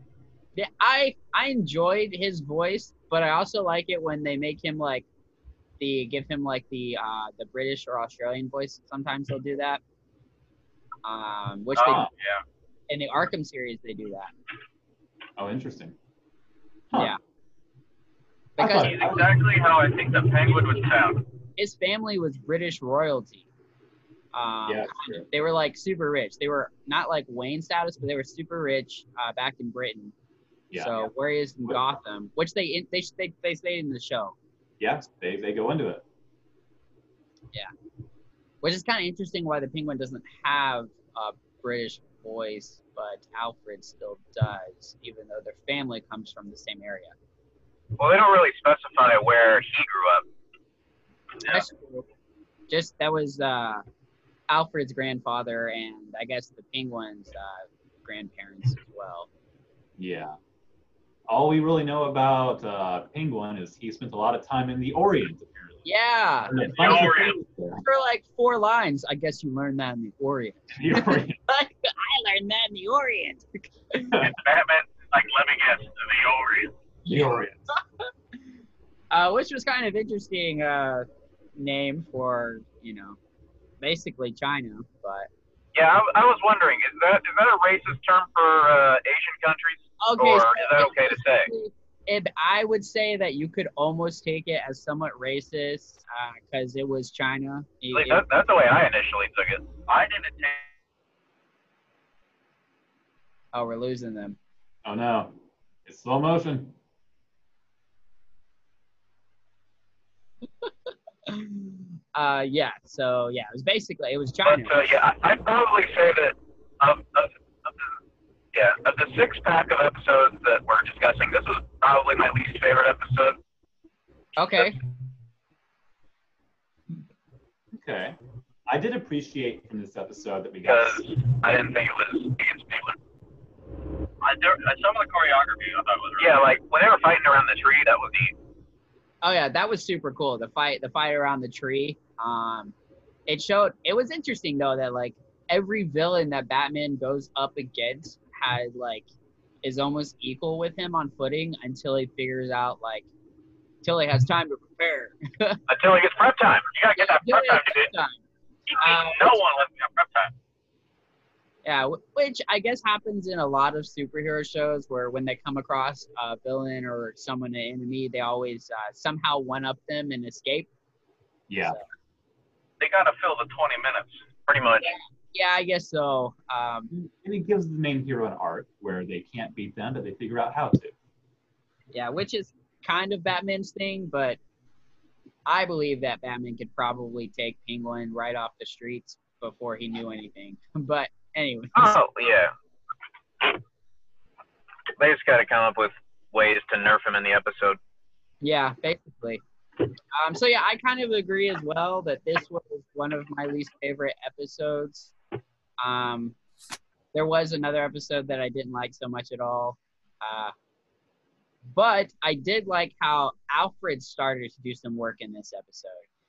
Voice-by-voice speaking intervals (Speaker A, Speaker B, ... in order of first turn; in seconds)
Speaker A: 0.6-5.0, 5.8-9.8, 11.0-12.1, 12.9-14.3, 16.9-17.2, 18.6-19.0, 21.6-23.4, 24.3-30.1, 30.8-34.4, 38.6-47.1, 51.4-52.1, 52.7-53.8, 54.5-59.3, 65.8-67.1, 67.8-74.2, 79.1-81.1, 81.6-83.2, 83.8-85.3, 90.0-98.2, 103.5-104.4, 111.3-114.7, 124.4-124.8, 139.2-142.7, 143.3-149.1, 149.6-153.1, 153.8-155.6, 157.0-158.2, 158.8-159.2, 161.7-170.7, 174.8-176.9, 181.9-184.4, 185.5-191.9, 198.4-199.4, 200.1-205.1, 205.8-206.3, 207.1-210.5, 211.7-216.0
Speaker B: 11.8-12.1, 15.4-15.9, 18.6-19.3, 24.7-25.3, 30.7-31.1, 34.8-36.0, 60.0-60.4, 61.3-65.8, 66.5-67.8, 70.7-71.4, 77.1-77.7, 104.8-106.8, 127.7-131.1, 171.5-171.8, 176.9-180.9
Speaker C: 11.9-12.4, 18.7-21.2, 66.7-67.4, 74.2-76.7, 99.9-100.7, 134.2-136.5, 158.8-160.3, 172.8-174.2
Speaker D: 48.0-50.2, 85.8-91.5, 97.9-99.7, 114.4-117.8, 118.5-123.4, 130.7-133.0, 136.2-138.3, 155.7-157.9, 158.8-159.3, 174.5-174.9, 191.8-192.5, 195.0-197.8